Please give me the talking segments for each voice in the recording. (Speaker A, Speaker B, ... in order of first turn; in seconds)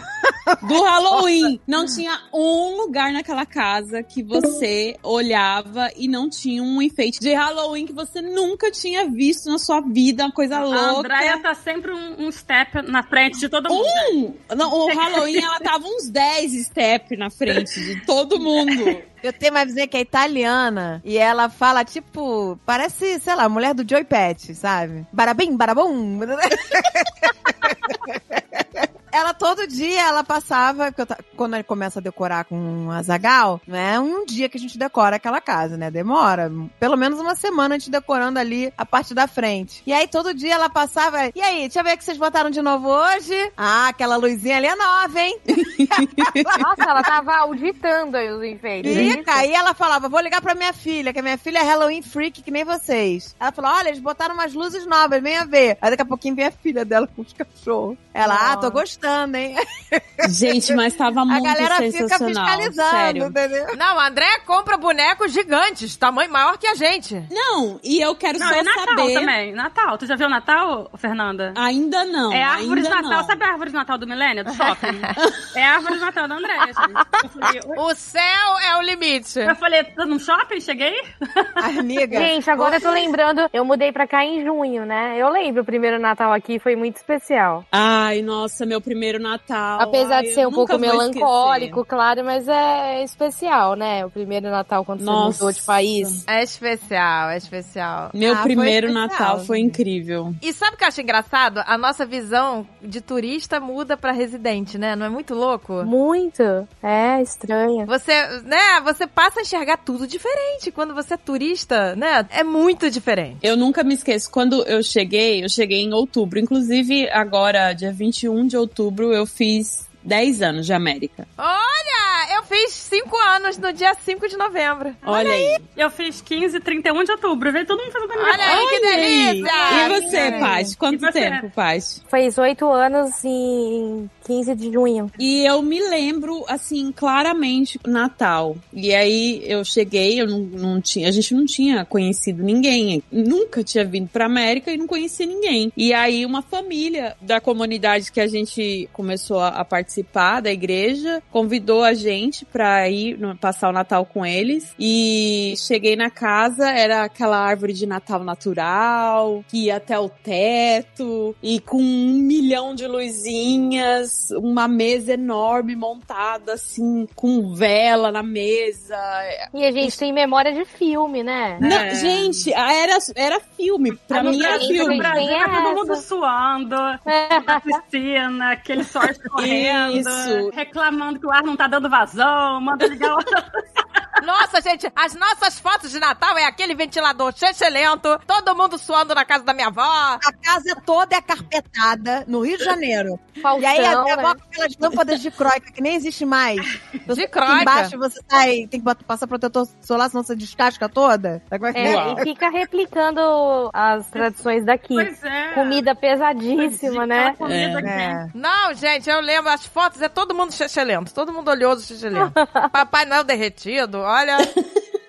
Speaker A: 0.6-11.4, 13.7-19.1, 45.6-46.5, 48.9-49.1, 60.2-63.4, 67.3-69.3, 71.5-73.4, 75.2-75.5, 87.7-91.8, 95.0-96.2, 98.2-100.4, 113.4-121.3, 125.0-125.6, 128.4-132.0, 135.2-169.9, 171.6-175.3, 179.4-180.5, 201.8-202.2, 207.4-207.9
Speaker B: 10.6-14.2, 14.8-15.5, 68.4-71.6, 72.3-77.8, 79.5-81.6, 125.0-131.5, 171.6-172.5, 174.1-183.6, 205.0-205.8, 206.6-208.2
Speaker C: 19.2-46.6, 48.8-63.8, 81.6-83.0, 98.2-99.8, 190.2-202.2, 207.8-208.3
Speaker D: 46.6-49.5, 58.2-58.8, 82.1-87.7, 89.8-96.2, 105.8-107.9, 132.1-135.1, 169.5-171.6, 174.1-176.0, 177.1-177.8, 193.4-194.4, 201.7-207.4, 212.2-212.7
Speaker E: 63.7-67.3, 74.5-75.1, 77.8-79.6, 96.3-98.2, 100.4-105.9, 107.9-113.4, 121.4-125.0, 128.2-130.6, 184.2-190.2, 197.1-197.9, 208.3-214.5